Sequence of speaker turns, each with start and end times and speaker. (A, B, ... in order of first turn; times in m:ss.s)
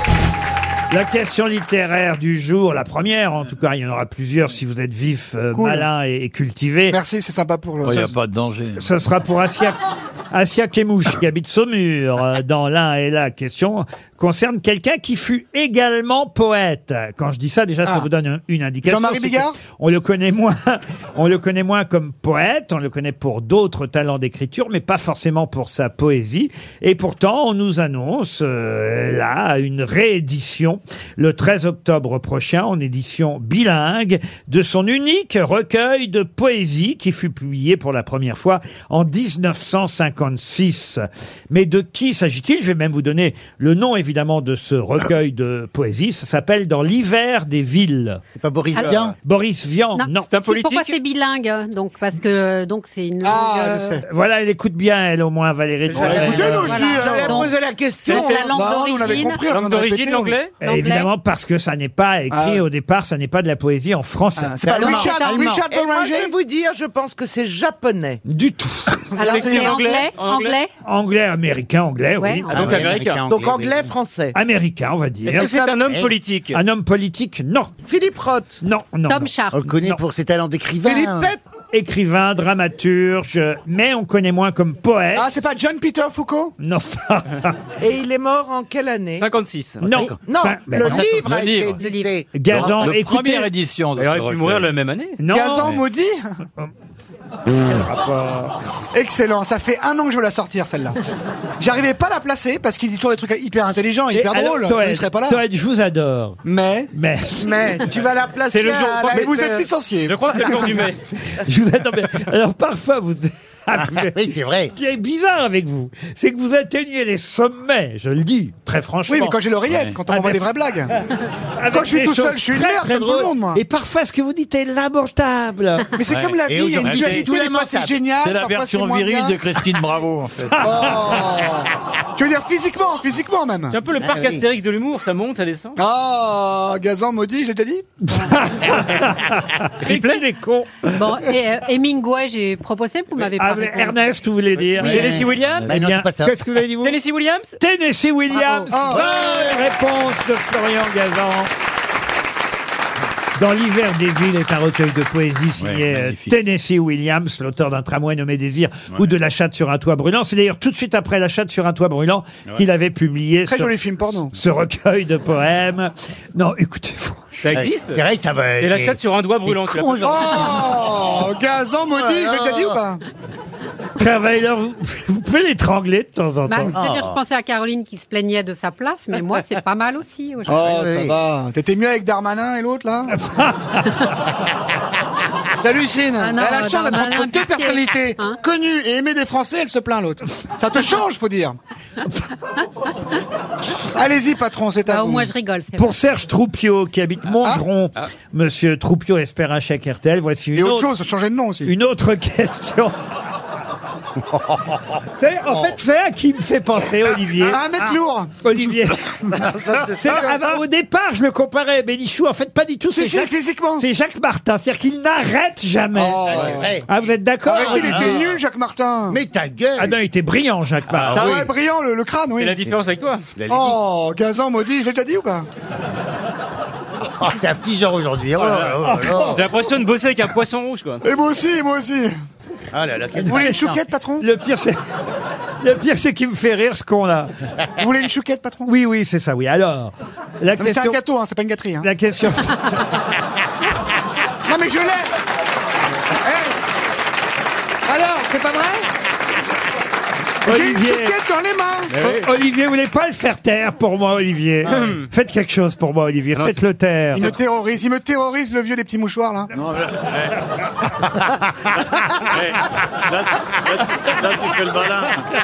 0:00.9-0:07.0 A
0:05.5-0:05.9 B
0:06.9-0:08.2 B
0:07.8-0:08.9 C
0:08.8-0:09.8 A
0:10.3-0:48.2 A
0:18.8-0:19.6 B
0:48.4-0:49.1 D
0:48.8-0:49.0 E
0:49.2-0:50.3 A
0:50.0-0:54.0 F
0:50.2-0:50.9 E
0:53.2-0:54.0 B
0:54.0-0:56.9 A
0:55.9-0:56.6 D
0:55.9-0:58.5 G
0:55.9-0:57.5 B
0:56.1-0:59.4 F
0:58.0-0:58.6 E
0:58.4-1:00.4 B
0:59.4-1:00.6 E
1:00.6-1:04.6 A
1:00.6-1:01.1 F
1:02.3-1:02.6 B
1:04.4-1:06.3 B
1:04.7-1:05.6 D
1:04.7-1:05.6 F
1:05.7-1:08.2 G
1:08.2-1:09.1 A
1:09.1-1:10.7 F
1:09.2-1:10.6 E
1:09.2-1:09.8 B
1:10.8-1:12.9 A
1:12.2-1:12.6 F
1:12.5-1:13.2 E
1:12.5-1:13.9 D
1:13.3-1:14.4 G
1:14.3-1:15.6 A
1:15.2-1:16.6 E
1:15.4-1:15.7 B
1:15.8-1:16.1 D
1:16.5-1:17.7 A
1:17.8-1:18.6 G
1:18.6-1:20.0 A
1:19.1-1:19.6 F
1:19.5-1:21.3 D
1:20.8-1:21.4 G
1:21.7-1:25.3 A
1:25.1-1:26.6 B
1:26.6-1:27.6 A
1:27.8-1:29.3 G
1:29.2-1:29.9 E
1:29.8-1:31.1 A
1:29.9-1:30.2 D
1:30.2-1:32.0 G
1:30.7-1:32.6 D
1:31.1-1:31.8 C
1:31.8-1:32.1 F
1:32.3-1:33.5 A
1:32.5-1:34.7 C
1:34.0-1:35.2 E
1:35.2-1:35.8 A
1:35.3-1:36.4 B
1:37.6-1:38.5 A
1:38.9-1:41.0 B
1:41.6-1:45.4 B
1:44.1-1:46.4 A
1:46.4-1:46.9 B
1:46.9-1:47.7 A
1:47.4-1:49.4 G
1:48.5-1:51.0 E
1:49.1-1:50.8 B
1:51.3-1:59.4 A
1:53.8-1:54.7 D
1:59.1-2:00.9 B
1:59.7-2:00.0 C
2:00.1-2:01.0 A
2:01.6-2:05.9 A
2:01.7-2:03.6 B
2:05.9-2:09.4 B
2:06.1-2:07.3 C
2:06.5-2:08.0 D
2:08.2-2:10.6 C
2:10.5-2:11.3 A
2:10.6-2:13.8 B
2:13.7-2:15.8 E
2:14.0-2:14.4 D
2:15.8-2:17.9 B
2:18.0-2:20.9 A
2:19.8-2:20.2 E
2:20.9-2:24.0 F
2:23.4-2:25.2 A
2:24.7-2:25.8 E
2:24.8-2:26.4 D
2:25.2-2:25.8 C
2:25.7-2:27.0 A
2:26.8-2:27.6 E
2:27.6-2:31.5 A
2:28.3-2:28.7 F
2:28.7-2:29.3 B
2:28.9-2:29.7 D
2:33.4-2:47.4 A
2:35.6-2:36.3 C
2:43.4-2:44.4 B
2:47.4-2:48.0 E
2:47.5-2:51.2 D
2:48.6-2:50.4 E
2:50.0-2:53.0 B
2:52.0-2:52.8 D
2:54.0-2:56.7 A
2:56.5-3:00.6 F
2:56.7-2:57.2 D
3:00.5-3:03.2 B
3:00.5-3:01.2 D
3:03.1-3:04.1 A
3:05.6-3:11.6 B
3:06.2-3:08.4 F
3:13.9-3:15.3 B
3:14.9-3:15.9 F
3:15.7-3:20.9 A
3:20.5-3:21.7 B
3:21.6-3:22.9 A
3:25.2-3:29.0 A
3:27.4-3:28.4 B
3:29.3-3:30.4 G
3:30.0-3:38.2 A
3:32.9-3:33.9 B
3:35.9-3:36.8 B
3:36.3-3:36.9 D
3:37.4-3:39.2 B
3:37.6-3:38.2 D
3:39.1-3:39.9 D
3:39.8-3:41.4 A
3:40.9-3:41.5 D
3:41.1-3:42.6 B
3:42.4-3:43.3 E
3:43.4-3:43.8 D
3:43.5-3:45.5 B
3:47.1-3:49.5 D
3:48.4-3:51.0 E
3:48.9-3:49.4 A
3:51.0-3:52.1 B
3:52.7-3:53.8 D
3:53.2-3:54.3 B
3:53.2-3:53.5 A
3:54.2-3:54.8 A
3:55.6-3:57.3 A
3:57.8-3:58.7 B
3:58.6-4:01.0 A
4:00.6-4:01.9 B
4:01.8-4:02.7 A
4:04.4-4:05.1 B
4:06.2-4:06.5 B
4:07.9-4:08.9 B
4:10.4-4:11.2 A
4:10.4-4:11.9 B
4:11.9-4:12.3 E
4:11.9-4:17.4 A
4:14.6-4:15.1 E
4:16.3-4:16.6 E
4:17.1-4:19.5 B
4:19.5-4:20.4 C
4:22.2-4:25.3 C